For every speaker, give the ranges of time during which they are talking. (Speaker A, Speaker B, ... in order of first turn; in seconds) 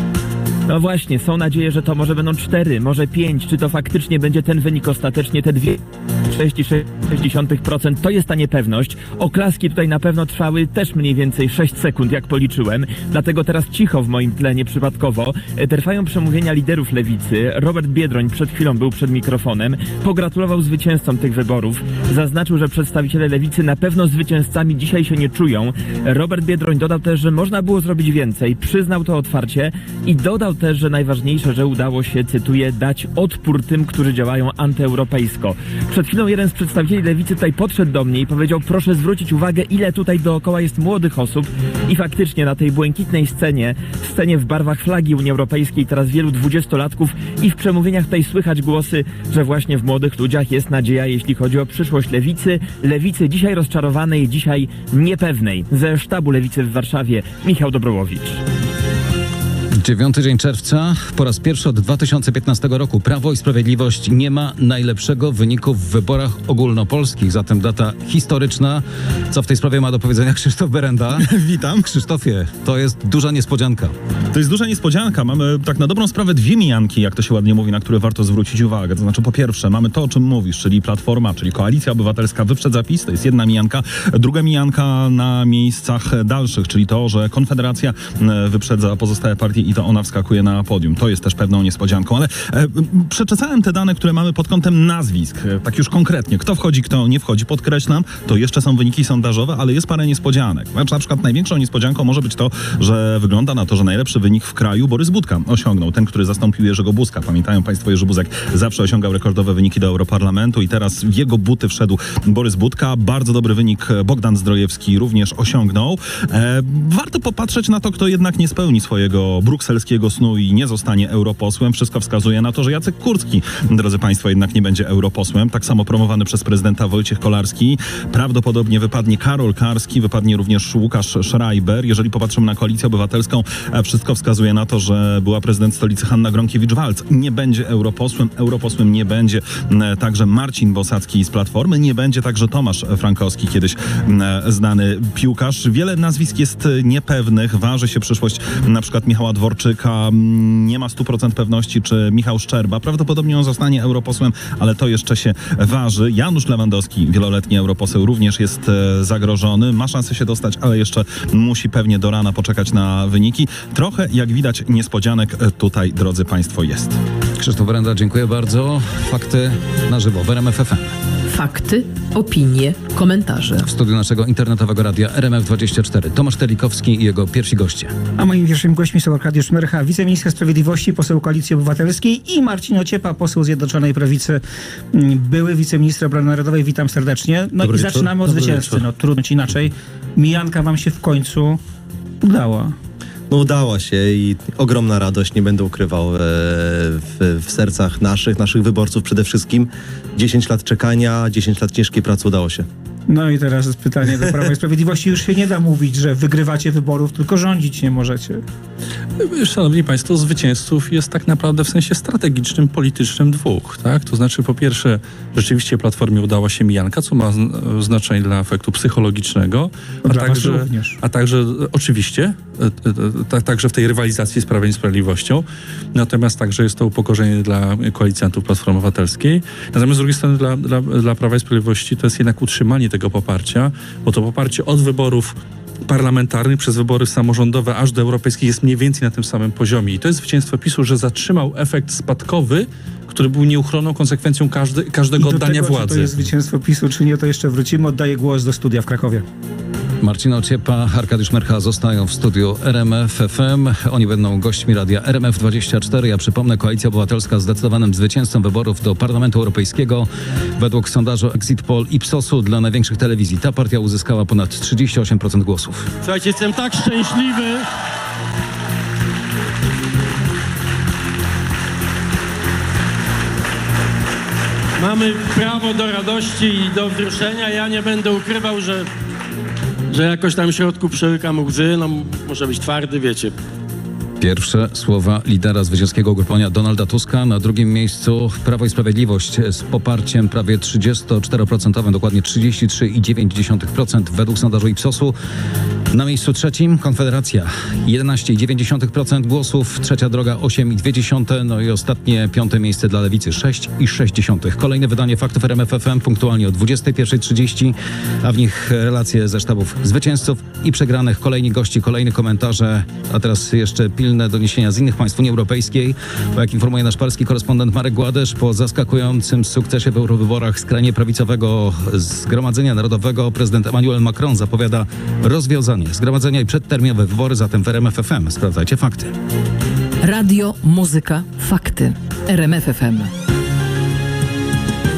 Speaker A: 0.7-58.4
Speaker B: 59.8-73.9, 167.4-170.9, 173.6-177.9, 250.0-265.9, 284.2-295.1, 295.9-329.1
Speaker C: 71.1-71.9, 74.3-167.0
Speaker D: 171.3-173.7, 330.0-333.1
Speaker E: 178.2-184.4, 184.9-191.6, 192.2-192.7, 203.1-208.4, 220.0-221.0, 245.2-249.2
Speaker F: 187.6-188.8, 209.2-246.2
Speaker G: 193.3-202.6
Speaker H: 266.1-267.6, 274.8-278.9, 279.9-283.3